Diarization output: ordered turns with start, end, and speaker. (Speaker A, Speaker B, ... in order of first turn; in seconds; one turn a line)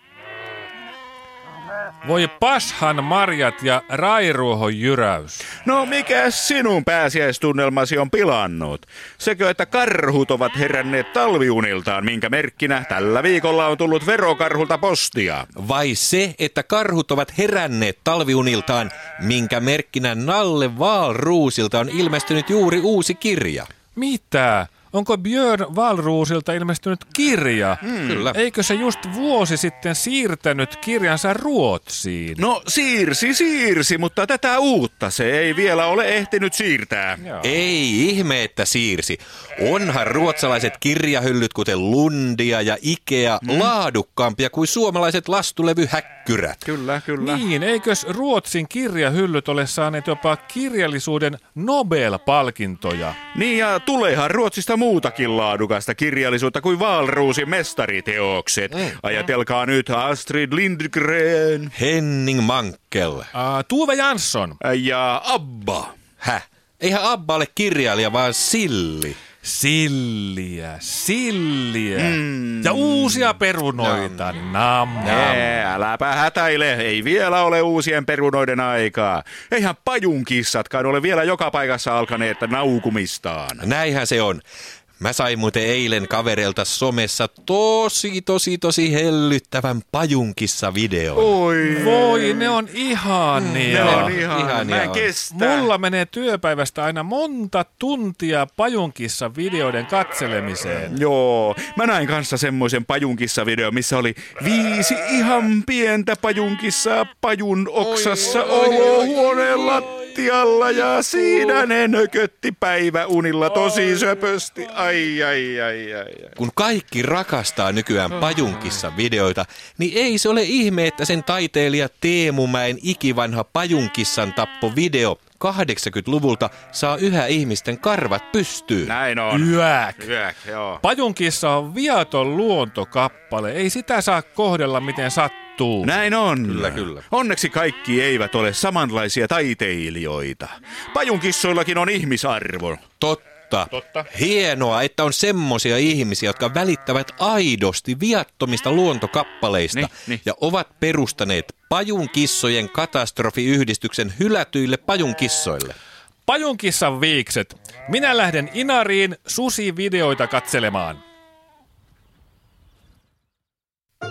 Speaker A: 2.0-5.5
Speaker B: 5.6-15.5
Speaker C: 15.6-23.7
Speaker A: 23.9-32.4
Speaker C: 27.9-28.4
Speaker B: 32.4-37.3
Speaker C: 37.4-46.7
Speaker B: 43.5-43.7
Speaker B: 46.7-47.4
Speaker A: 47.2-53.2
Speaker B: 53.3-61.7
Speaker C: 61.7-63.3
Speaker A: 63.3-64.6
Speaker B: 64.6-66.0
Speaker C: 66.2-69.2
Speaker A: 69.4-75.4
Speaker B: 72.0-73.4
Speaker C: 73.8-74.3
Speaker B: 75.0-83.6
Speaker C: 75.0-75.4
Speaker C: 83.6-84.4
Speaker C: 85.0-91.3
Speaker B: 91.2-92.6
Speaker A: 91.7-94.2
Speaker C: 93.4-95.1
Speaker B: 93.7-95.7
Speaker A: 95.3-101.0
Speaker B: 100.8-116.3
Speaker C: 116.4-128.9
Speaker B: 128.8-130.8
Speaker A: 129.3-130.1
Speaker A: 130.8-136.1
Speaker B: 135.8-142.8
Speaker C: 136.4-137.0
Speaker C: 143.0-155.8
Speaker B: 149.7-150.2
Speaker A: 156.3-161.0